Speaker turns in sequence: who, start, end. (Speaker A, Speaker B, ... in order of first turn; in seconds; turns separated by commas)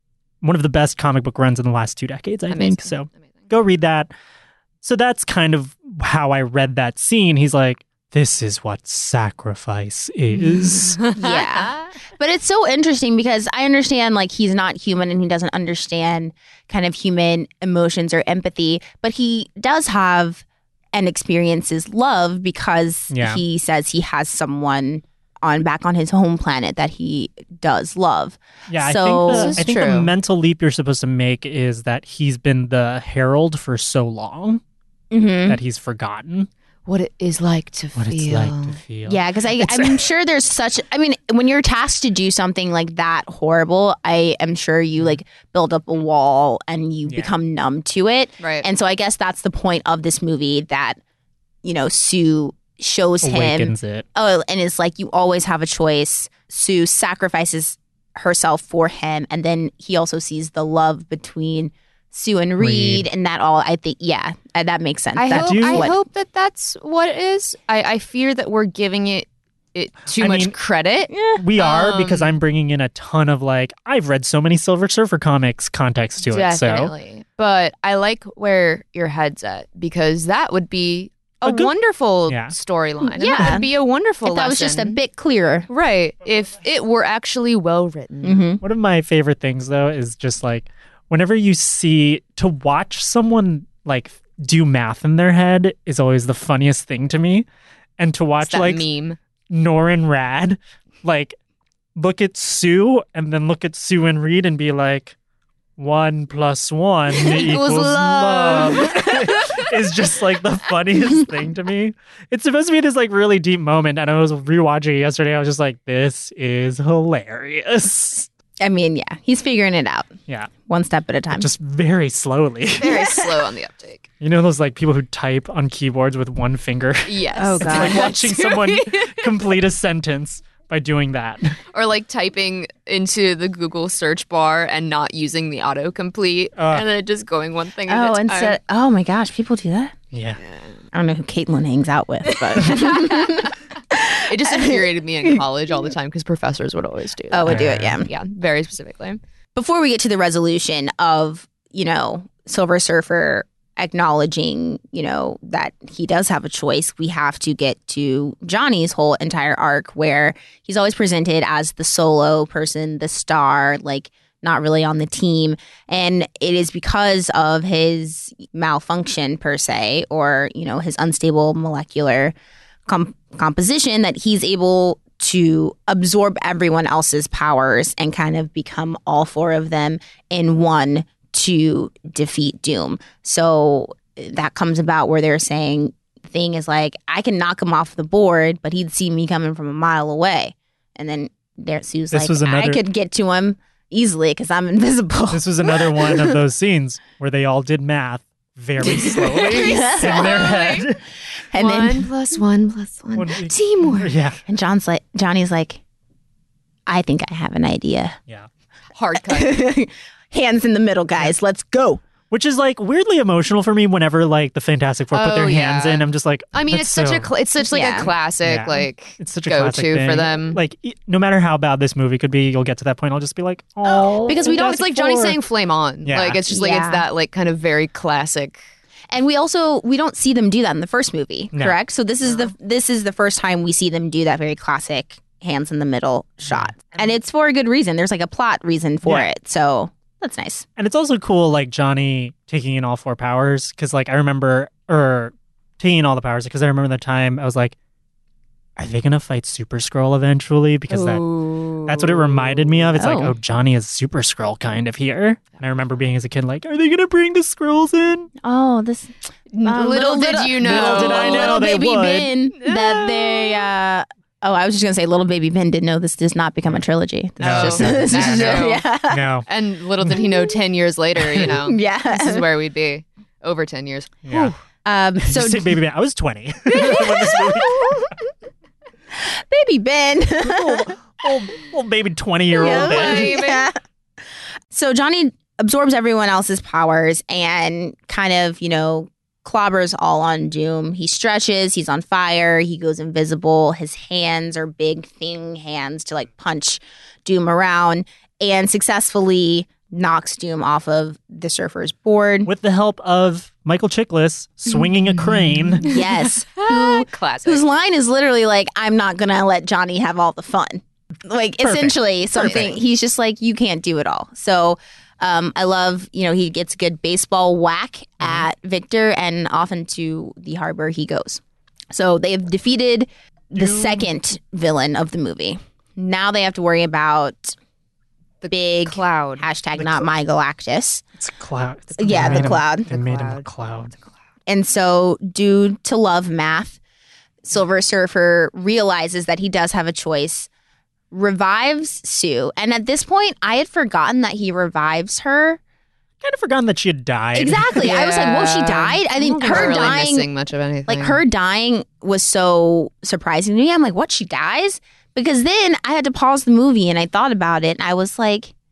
Speaker A: 0.4-4.1, Speaker B: 2.5-3.1, Speaker A: 4.8-11.0, Speaker B: 10.9-11.9, Speaker C: 11.1-29.7, Speaker A: 23.1-23.4, Speaker A: 28.7-34.6, Speaker B: 29.3-30.1, Speaker C: 35.1-35.6, Speaker A: 35.5-36.5, Speaker B: 36.9-38.8, Speaker A: 38.0-39.9, Speaker C: 39.1-51.0, Speaker A: 47.1-47.3, Speaker B: 48.4-48.7, Speaker C: 51.6-66.0, Speaker A: 53.2-54.0, Speaker A: 62.6-63.1, Speaker B: 65.2-72.4, Speaker A: 65.3-66.0, Speaker A: 70.1-70.6, Speaker C: 71.1-71.4, Speaker A: 71.4-76.9, Speaker B: 76.3-85.0, Speaker A: 81.4-81.7, Speaker A: 82.3-82.5, Speaker C: 83.1-83.7, Speaker C: 84.2-85.7, Speaker B: 85.7-88.4, Speaker C: 88.2-88.6, Speaker A: 88.6-97.5, Speaker A: 98.0-98.9, Speaker B: 98.4-99.2, Speaker A: 99.5-101.4, Speaker A: 102.0-105.1, Speaker A: 105.8-118.3, Speaker B: 107.2-109.6, Speaker C: 118.6-120.1, Speaker C: 120.7-121.5, Speaker A: 121.3-123.2, Speaker B: 122.8-124.1, Speaker C: 122.8-123.2, Speaker A: 124.2-131.6, Speaker B: 127.1-129.3, Speaker C: 127.4-128.3, Speaker B: 131.7-138.6, Speaker A: 136.6-136.9, Speaker C: 137.9-139.9, Speaker A: 140.1-140.4, Speaker C: 140.9-144.8, Speaker B: 142.6-143.2, Speaker B: 144.3-149.2, Speaker C: 147.3-148.1, Speaker A: 147.4-148.0, Speaker C: 149.6-172.3, Speaker C: 172.9-196.3, Speaker A: 192.1-192.8, Speaker A: 195.3-201.0, Speaker C: 198.8-200.8, Speaker B: 199.3-200.8, Speaker C: 201.5-202.1, Speaker B: 201.6-204.1, Speaker A: 203.2-204.4, Speaker C: 204.5-205.8, Speaker C: 206.9-208.2, Speaker B: 208.9-209.6, Speaker C: 209.3-212.0, Speaker A: 212.3-217.3, Speaker B: 215.1-220.6, Speaker C: 217.7-218.1, Speaker A: 218.4-225.4, Speaker B: 223.9-228.6, Speaker C: 224.3-224.7, Speaker A: 226.1-226.4, Speaker C: 226.5-227.1, Speaker C: 229.1-240.6, Speaker A: 231.5-231.8, Speaker A: 236.5-236.8, Speaker A: 240.8-247.8, Speaker A: 248.8-251.2, Speaker B: 250.9-252.8, Speaker A: 251.9-258.3, Speaker C: 252.9-253.3, Speaker C: 258.4-269.3, Speaker B: 259.5-261.7, Speaker A: 260.6-262.3, Speaker B: 262.6-263.7, Speaker A: 267.4-269.4, Speaker B: 267.4-268.8, Speaker B: 269.5-274.5, Speaker C: 271.4-272.4, Speaker A: 274.2-274.5, Speaker C: 274.9-275.8, Speaker A: 275.2-278.0, Speaker C: 276.7-278.1, Speaker C: 279.2-280.9, Speaker A: 280.4-283.4, Speaker C: 282.5-283.8, Speaker B: 282.6-283.7, Speaker C: 284.7-302.5, Speaker A: 302.4-305.9, Speaker B: 305.8-307.6, Speaker C: 305.8-321.4, Speaker A: 311.6-312.8, Speaker A: 318.2-318.5, Speaker C: 321.9-327.6, Speaker A: 323.6-324.1, Speaker B: 328.4-329.4, Speaker C: 328.5-331.0, Speaker A: 329.8-330.1, Speaker A: 331.2-333.9, Speaker C: 332.0-332.9, Speaker B: 332.0-333.5, Speaker C: 334.5-336.8, Speaker C: 337.4-340.5, Speaker C: 341.1-345.6, Speaker A: 346.2-347.9, Speaker C: 347.4-350.3, Speaker B: 347.8-351.2, Speaker A: 349.5-349.8, Speaker C: 350.9-358.5